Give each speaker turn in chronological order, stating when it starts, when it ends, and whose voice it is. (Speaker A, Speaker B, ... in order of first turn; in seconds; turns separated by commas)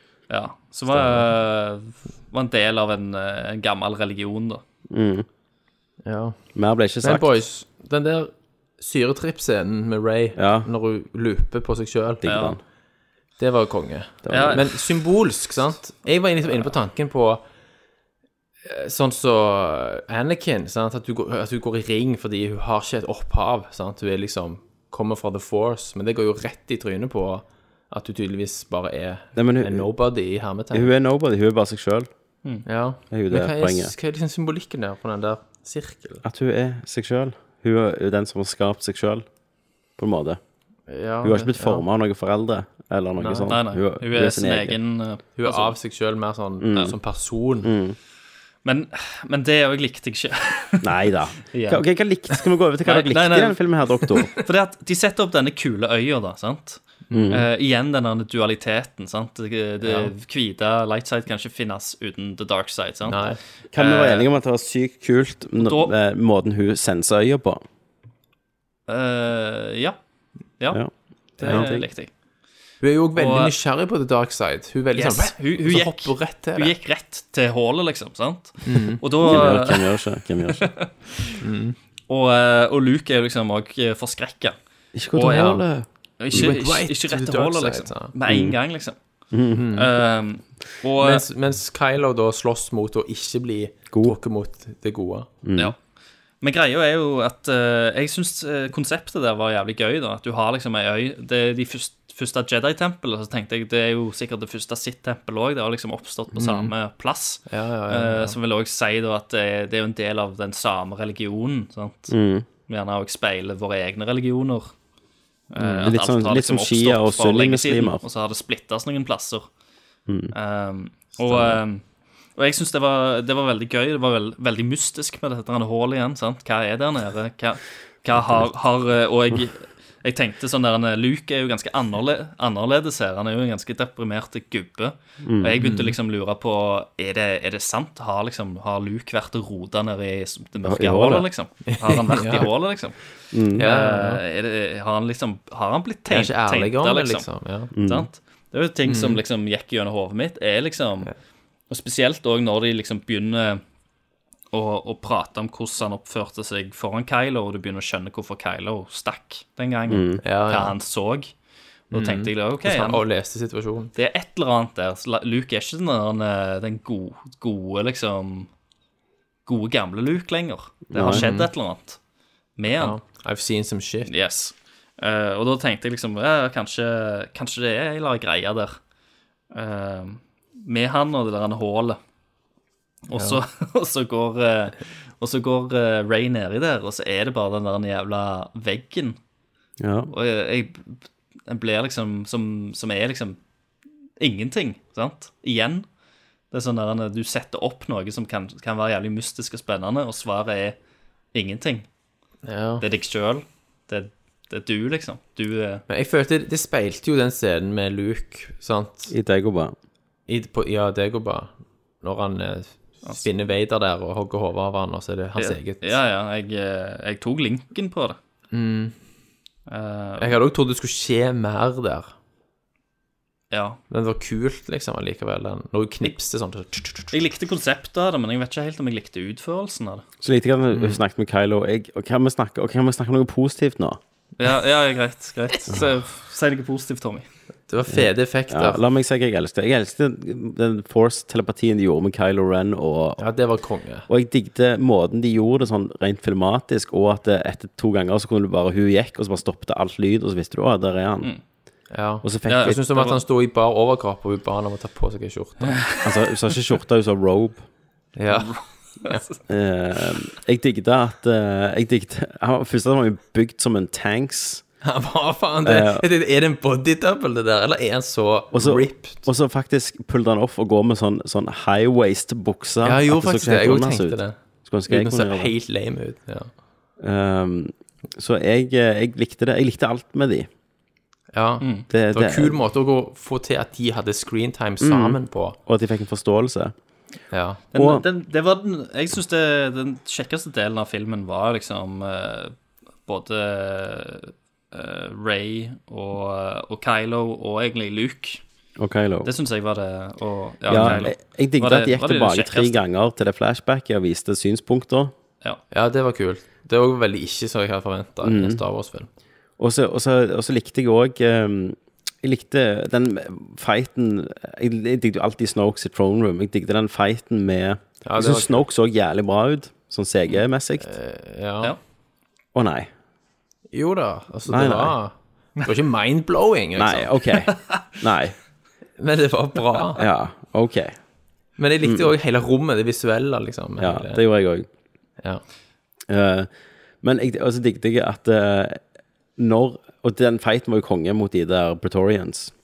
Speaker A: 0.3-4.6, Speaker B: 0.9-1.3, Speaker B: 4.9-5.3, Speaker C: 6.1-6.4, Speaker B: 6.5-7.3, Speaker C: 7.0-12.2, Speaker B: 10.4-10.7, Speaker B: 12.2-12.6, Speaker A: 12.2-12.6, Speaker C: 13.4-17.4, Speaker B: 14.2-14.6, Speaker A: 14.3-14.7, Speaker C: 18.7-30.9, Speaker B: 29.4-29.9, Speaker B: 30.7-32.1, Speaker C: 32.7-36.2, Speaker B: 33.1-33.9, Speaker B: 36.2-39.2, Speaker B: 40.0-40.4, Speaker C: 40.9-41.9, Speaker B: 41.2-44.8, Speaker C: 43.2-43.6, Speaker A: 43.5-45.7, Speaker C: 45.4-47.7, Speaker B: 46.6-47.0, Speaker B: 47.6-48.0, Speaker A: 48.6-50.9, Speaker B: 50.8-54.3, Speaker A: 51.4-51.8, Speaker A: 52.9-63.2, Speaker C: 57.1-57.4, Speaker B: 57.1-57.5, Speaker C: 59.8-60.1, Speaker C: 63.1-63.4, Speaker B: 63.7-67.6, Speaker A: 63.8-64.3, Speaker A: 65.6-65.9, Speaker A: 68.9-70.0, Speaker B: 70.7-71.9, Speaker A: 71.4-72.1, Speaker C: 72.8-76.8, Speaker A: 73.2-73.5, Speaker A: 75.0-80.0, Speaker C: 78.6-79.5, Speaker B: 79.2-80.7, Speaker A: 80.5-81.3, Speaker C: 81.4-81.8, Speaker A: 82.1-84.5, Speaker B: 85.0-86.5, Speaker A: 85.1-85.6, Speaker C: 85.3-85.6, Speaker A: 86.2-89.0, Speaker C: 86.3-88.1, Speaker B: 88.3-88.6, Speaker B: 89.3-89.6, Speaker C: 89.5-90.0, Speaker A: 89.7-91.2, Speaker C: 91.0-95.3, Speaker B: 95.4-95.7, Speaker A: 96.4-112.1, Speaker C: 106.4-106.7, Speaker C: 107.5-108.4, Speaker B: 112.1-112.5, Speaker A: 112.7-114.7, Speaker A: 115.5-119.5, Speaker C: 115.6-115.9, Speaker B: 115.8-118.0, Speaker B: 120.1-120.3, Speaker A: 120.3-121.8, Speaker C: 121.3-121.6, Speaker A: 122.4-143.0, Speaker B: 135.2-135.6, Speaker C: 135.6-136.0, Speaker B: 140.6-141.3, Speaker C: 141.7-142.5, Speaker B: 143.3-143.6, Speaker A: 143.5-151.1, Speaker C: 143.6-144.2, Speaker C: 146.1-147.7, Speaker B: 147.7-148.1, Speaker C: 148.9-149.2, Speaker A: 151.7-153.6, Speaker A: 154.5-161.3, Speaker B: 159.9-160.2, Speaker C: 160.2-160.8, Speaker A: 161.9-163.0, Speaker C: 161.9-163.9, Speaker A: 163.9-168.5, Speaker A: 169.5-172.0, Speaker B: 170.9-171.2, Speaker C: 171.1-171.5, Speaker A: 172.6-173.0, Speaker C: 172.8-174.1, Speaker A: 174.1-178.8, Speaker A: 179.5-182.0, Speaker A: 183.1-189.2, Speaker C: 183.1-183.4, Speaker B: 189.8-190.1, Speaker A: 190.1-193.4, Speaker A: 194.2-195.9, Speaker A: 196.5-200.8, Speaker A: 201.3-201.9, Speaker C: 202.4-202.8, Speaker A: 202.8-205.8, Speaker C: 205.9-209.1, Speaker B: 209.1-209.7, Speaker C: 210.3-216.0, Speaker A: 215.4-218.2, Speaker C: 218.5-218.9, Speaker A: 219.7-220.4, Speaker C: 220.2-222.1, Speaker A: 223.5-223.8, Speaker C: 223.9-227.1, Speaker A: 227.1-230.0, Speaker B: 230.2-234.0, Speaker C: 230.7-231.0, Speaker A: 234.4-237.3, Speaker C: 237.7-238.8, Speaker B: 237.9-243.2, Speaker C: 243.2-244.1, Speaker B: 244.1-251.3, Speaker C: 251.9-255.9, Speaker B: 252.2-252.8, Speaker A: 252.5-253.2, Speaker A: 255.8-256.1, Speaker B: 256.0-257.6, Speaker C: 258.2-259.2, Speaker A: 258.3-259.4, Speaker B: 259.5-264.6, Speaker C: 264.8-269.2, Speaker B: 265.6-266.1, Speaker B: 268.5-275.5, Speaker C: 272.8-274.4, Speaker C: 274.9-276.5, Speaker B: 277.0-280.5, Speaker C: 281.3-285.6, Speaker A: 281.6-281.9, Speaker B: 281.9-282.6, Speaker B: 284.8-286.7, Speaker C: 287.3-287.6, Speaker A: 287.7-298.4, Speaker B: 287.8-288.1, Speaker B: 298.8-299.3, Speaker A: 299.2-302.8, Speaker B: 300.7-305.1, Speaker C: 300.7-301.1, Speaker C: 305.7-309.1, Speaker B: 308.2-308.6, Speaker B: 309.6-320.9, Speaker C: 318.1-318.6, Speaker C: 320.8-321.7, Speaker B: 322.5-322.9, Speaker C: 323.7-327.1, Speaker B: 324.5-324.9, Speaker B: 326.8-328.4, Speaker A: 327.5-327.9, Speaker C: 329.0-330.0, Speaker B: 330.0-330.9, Speaker C: 331.6-334.2, Speaker B: 331.8-332.1, Speaker B: 333.8-334.7, Speaker B: 336.1-336.5, Speaker B: 337.0-338.8, Speaker B: 339.4-342.5